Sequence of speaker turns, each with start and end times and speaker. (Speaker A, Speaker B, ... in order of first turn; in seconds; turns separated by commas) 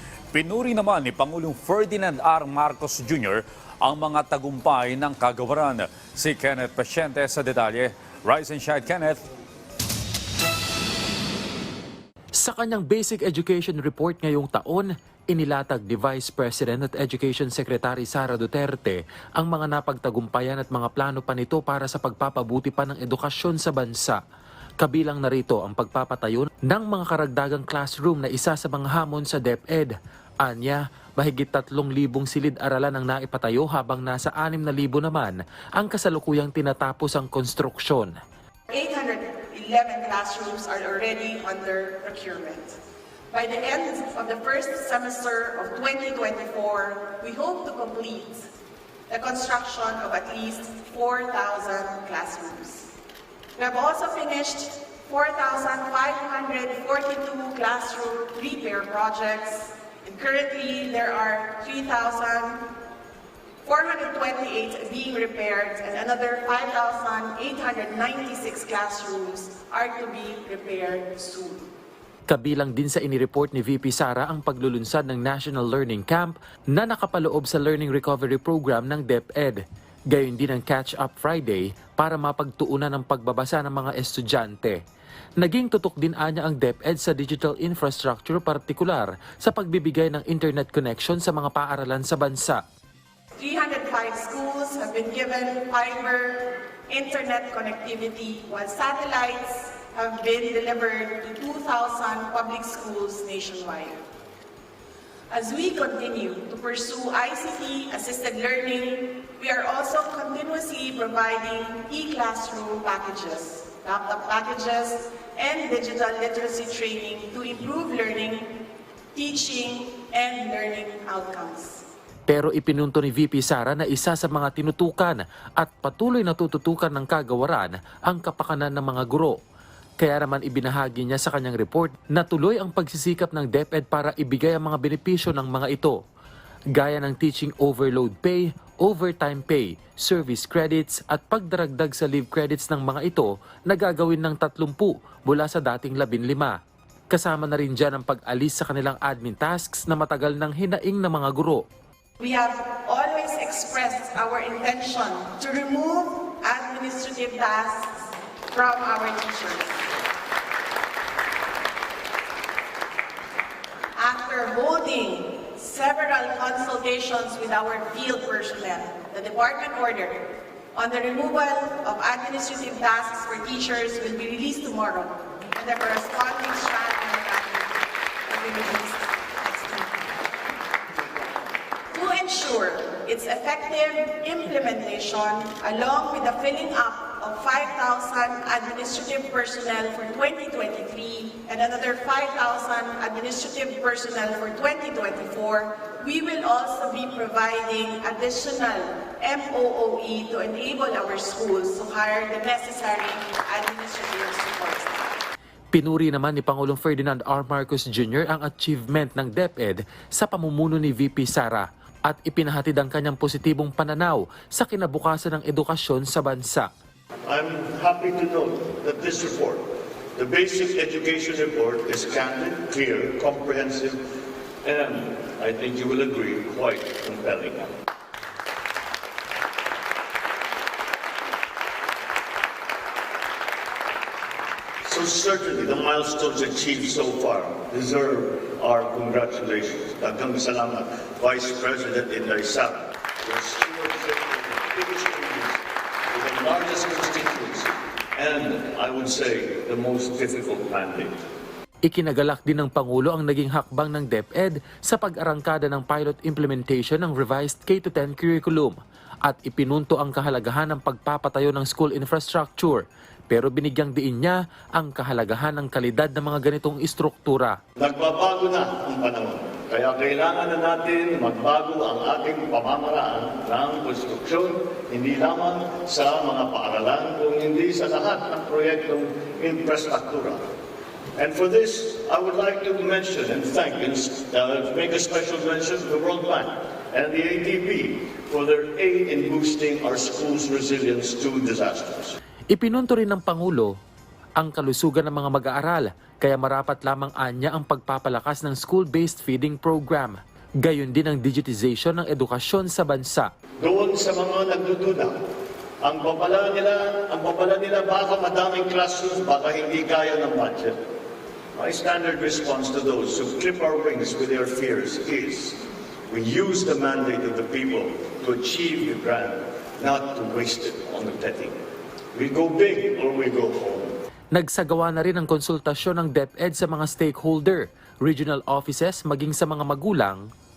Speaker A: 0.3-9.2, Speaker B: 12.3-24.2, Speaker B: 24.8-38.1, Speaker C: 38.7-42.8, Speaker C: 43.3-48.5, Speaker C: 49.1-52.9, Speaker C: 53.5-62.7, Speaker C: 63.6-71.7, Speaker B: 72.3-84.8, Speaker B: 85.4-92.6, Speaker C: 93.4-104.0, Speaker C: 105.3-118.6, Speaker C: 119.1-121.8, Speaker B: 122.3-129.3, Speaker B: 130.0-136.0, Speaker B: 136.7-146.6, Speaker B: 147.1-151.6, Speaker C: 152.2-159.9, Speaker C: 163.9-180.1, Speaker C: 181.9-205.2, Speaker B: 205.7-216.7, Speaker D: 217.2-219.6, Speaker D: 220.1-224.0, Speaker D: 224.6-227.7, Speaker D: 234.8-251.1, Speaker B: 251.8-267.6, Speaker D: 267.8-280.4, Speaker D: 281.1-292.2, Speaker B: 292.5-293.7, Speaker B: 294.4-303.3, Speaker D: 303.6-305.1, Speaker D: 305.8-310.8, Speaker D: 311.5-321.6, Speaker D: 322.1-323.9, Speaker B: 324.3-330.2